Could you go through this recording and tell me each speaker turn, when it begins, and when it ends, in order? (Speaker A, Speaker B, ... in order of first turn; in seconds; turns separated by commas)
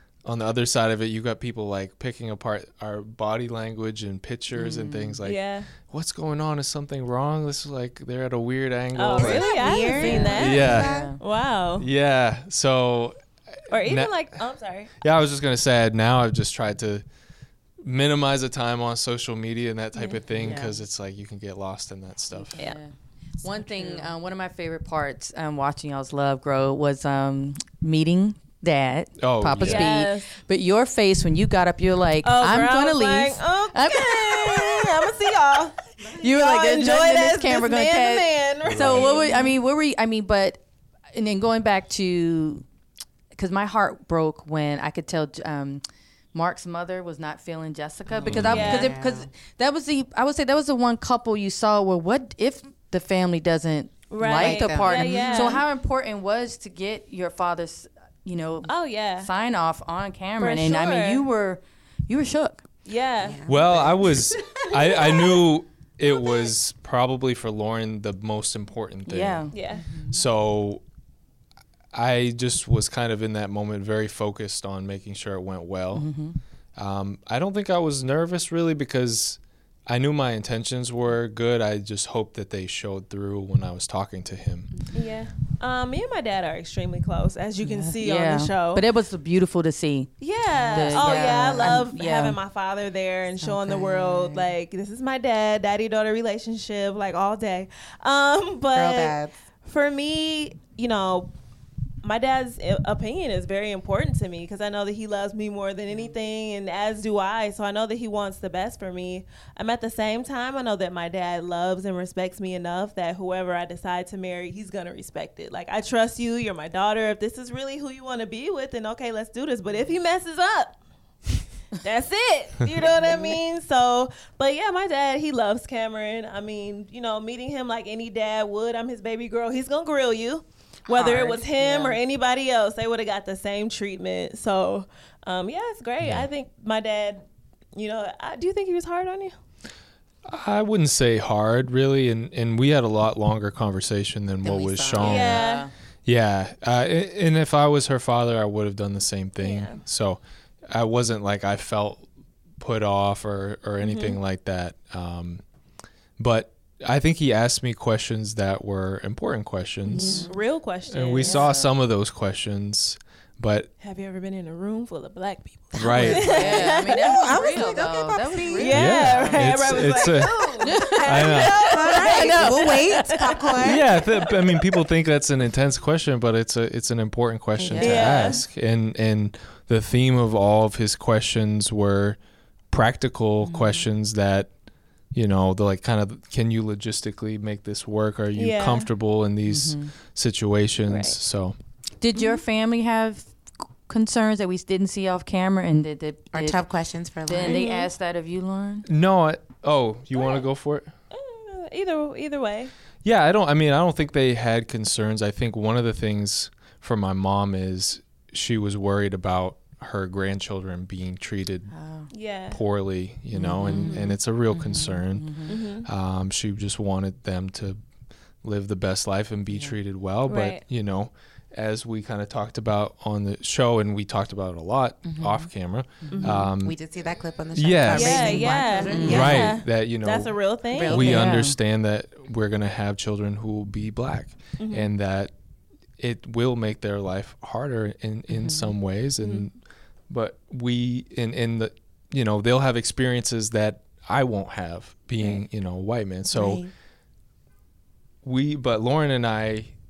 Speaker A: 0.2-9.8, Speaker B: 4.5-5.2, Speaker C: 5.2-5.7, Speaker C: 8.9-11.9, Speaker D: 9.2-11.1, Speaker B: 9.8-11.2, Speaker A: 10.3-10.9, Speaker A: 11.8-13.2, Speaker A: 13.7-14.2, Speaker C: 13.7-14.9, Speaker A: 15.0-17.0, Speaker A: 17.8-22.6, Speaker B: 20.4-20.7, Speaker B: 22.3-35.1, Speaker D: 23.8-24.0, Speaker A: 29.2-29.9, Speaker C: 29.6-30.3, Speaker C: 32.2-39.5, Speaker B: 36.0-40.6, Speaker A: 38.6-39.1, Speaker B: 41.1-42.6, Speaker B: 43.3-45.8, Speaker B: 46.3-62.7, Speaker D: 48.1-49.3, Speaker A: 48.2-48.8, Speaker C: 48.4-48.9, Speaker C: 54.1-55.6, Speaker D: 54.3-55.6, Speaker C: 58.6-59.3, Speaker C: 60.4-61.2, Speaker C: 62.9-63.4, Speaker D: 63.2-65.2, Speaker A: 63.5-69.5, Speaker B: 69.1-69.5, Speaker C: 69.5-69.8, Speaker D: 69.7-70.2, Speaker A: 70.1-70.8, Speaker A: 71.9-76.1, Speaker B: 75.9-76.4, Speaker A: 76.8-84.7, Speaker D: 84.7-85.0, Speaker C: 84.9-88.8, Speaker B: 87.6-90.1, Speaker C: 90.2-101.3, Speaker D: 90.5-91.8, Speaker B: 90.6-92.4, Speaker D: 93.5-94.4, Speaker D: 98.7-99.3, Speaker C: 102.0-120.8, Speaker C: 121.8-139.3, Speaker B: 130.9-132.0, Speaker D: 131.0-131.2, Speaker A: 136.0-136.3, Speaker A: 140.2-145.4, Speaker D: 144.4-145.3, Speaker C: 145.0-145.7, Speaker B: 145.1-145.7, Speaker A: 146.0-152.1, Speaker C: 149.4-149.8, Speaker A: 152.6-155.4, Speaker C: 153.8-154.2, Speaker A: 156.2-160.3, Speaker D: 159.9-160.3, Speaker C: 159.9-161.5, Speaker B: 159.9-160.3, Speaker A: 160.9-163.7, Speaker B: 161.2-161.7, Speaker C: 163.8-167.2, Speaker D: 165.7-168.9, Speaker A: 165.7-166.5, Speaker B: 166.0-169.5, Speaker C: 168.5-174.0, Speaker A: 168.7-171.6, Speaker B: 170.6-173.5, Speaker D: 171.6-173.8, Speaker A: 173.6-182.2, Speaker D: 177.6-178.2, Speaker B: 177.7-178.3, Speaker C: 177.8-178.4, Speaker A: 182.7-184.5, Speaker D: 183.4-183.8, Speaker A: 185.1-191.5, Speaker C: 188.3-188.9, Speaker B: 189.5-189.9, Speaker C: 190.9-191.2, Speaker B: 192.0-193.3, Speaker B: 193.9-196.6, Speaker D: 196.3-197.6, Speaker B: 197.2-198.8, Speaker C: 197.4-197.9, Speaker A: 198.8-200.9, Speaker C: 200.1-200.4, Speaker C: 201.1-202.7, Speaker A: 203.0-211.7, Speaker B: 211.7-212.1, Speaker C: 212.1-212.6, Speaker A: 212.5-217.8, Speaker B: 213.3-214.0, Speaker D: 213.4-215.0, Speaker C: 213.8-214.1, Speaker B: 215.1-215.5, Speaker C: 215.5-215.9, Speaker A: 218.4-226.8, Speaker C: 220.2-220.6, Speaker D: 225.0-225.5, Speaker B: 226.1-226.3, Speaker C: 226.1-226.4, Speaker D: 226.3-229.5, Speaker A: 227.6-235.3, Speaker C: 227.9-231.2, Speaker B: 228.8-229.5, Speaker D: 230.7-231.4, Speaker B: 230.9-231.6, Speaker C: 234.6-234.9, Speaker A: 236.0-239.5, Speaker D: 238.3-238.7, Speaker C: 239.2-239.4, Speaker A: 240.1-246.6, Speaker D: 246.3-246.7, Speaker A: 248.2-249.7